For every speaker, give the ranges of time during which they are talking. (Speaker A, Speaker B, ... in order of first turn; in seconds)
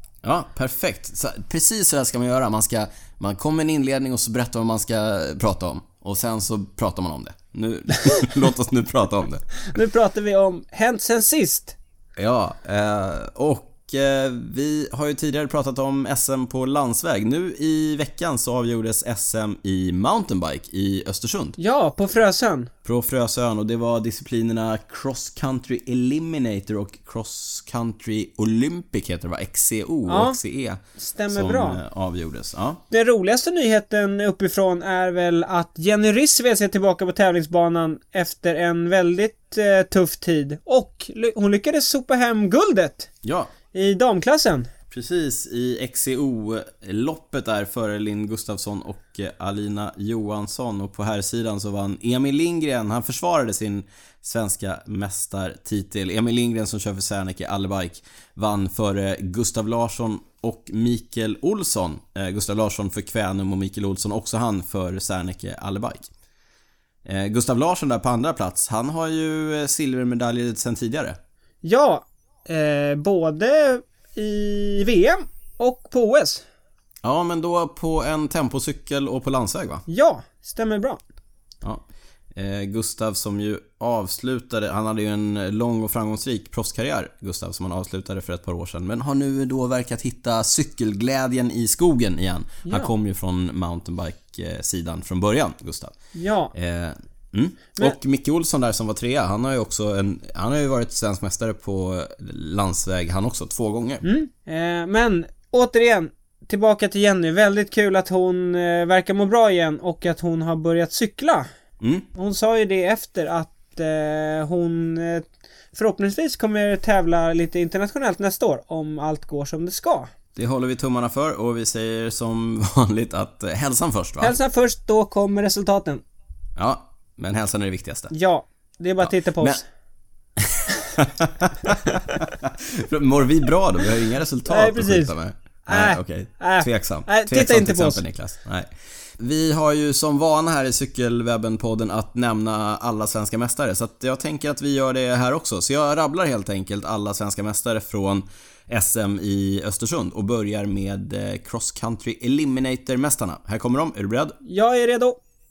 Speaker A: 0.2-9.4, 12.2-21.6, 22.8-32.8, 43.2-43.5, 44.9-66.1, 67.0-71.2, 77.0-79.8, 82.3-96.0, 96.5-104.0, 111.8-112.0, 120.3-124.3, 126.5-128.1, 129.0-129.6, 130.4-154.3
Speaker B: 9.6-11.8, 21.6-22.7, 30.1-30.4, 31.0-31.8, 32.9-43.1, 43.7-44.7, 71.6-76.4, 79.9-81.0, 92.7-92.9, 96.1-96.5, 104.0-111.5, 112.1-120.1, 124.2-126.0, 128.1-129.6, 134.5-135.1, 135.7-138.0, 154.4-155.2